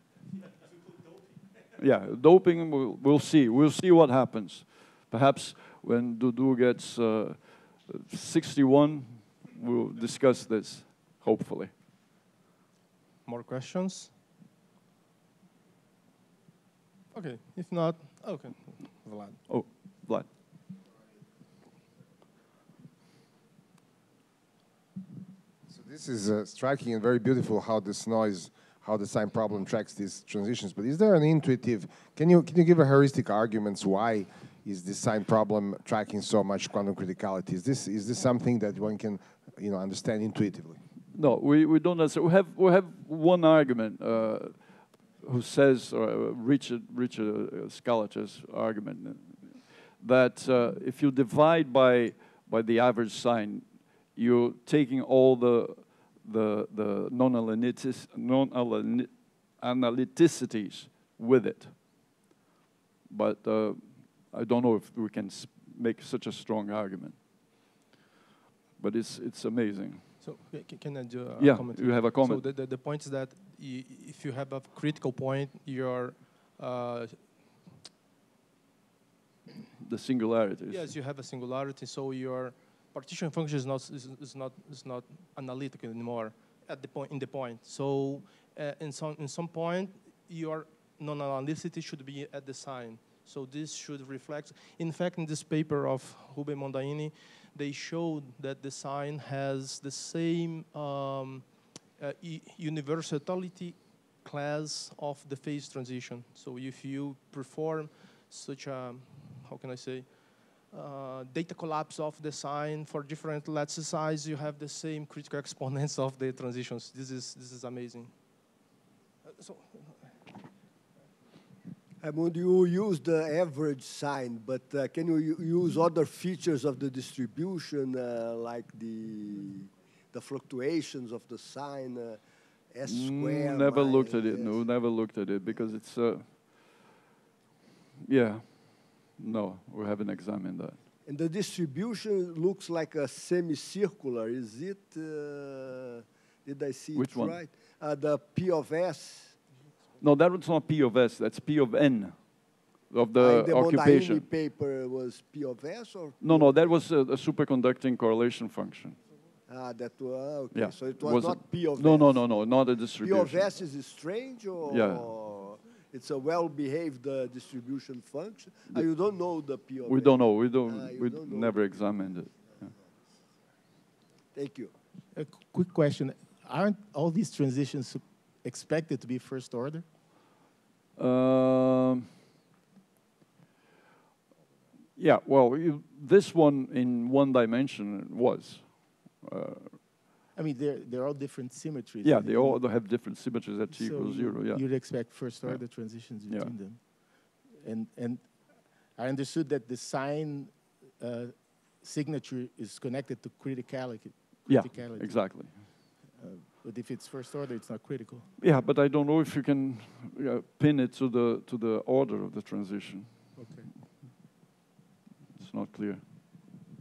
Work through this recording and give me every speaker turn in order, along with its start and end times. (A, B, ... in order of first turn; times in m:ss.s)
0:01.8-0:11.7 A
0:13.2-0:14.1 B
0:17.1-0:19.4 B
0:19.5-0:20.3 A
0:25.7-0:40.8 C
0:41.1-0:44.6 A
0:45.2-1:02.0 A
1:03.1-1:07.2 A
1:08.8-1:10.1 A
1:10.2-1:17.3 B
1:11.4-1:12.4 A
1:19.8-1:20.9 A
1:20.7-1:58.2 B
1:59.3-1:59.9 B
2:02.0-2:14.7 D
2:12.8-2:16.3 A
2:18.0-2:20.8 A
2:21.0-2:29.4 D
2:26.9-2:27.4 A
2:30.0-2:34.3 A
2:33.2-2:36.8 D
2:36.2-2:39.0 A
2:39.5-2:42.4 D
2:40.5-2:43.5 A
2:43.0-2:51.7 D
2:44.7-2:45.1 A
2:49.8-2:52.7 A
2:54.3-2:54.7 D
2:55.1-2:59.8 E
3:01.0-3:02.1 A
3:05.0-3:09.8 A
3:10.4-3:12.7 E
3:12.0-3:16.6 A
3:13.7-3:28.3 E
3:24.5-3:25.6 A
3:28.4-3:33.4 A
3:33.4-3:33.7 E
3:35.4-3:36.0 A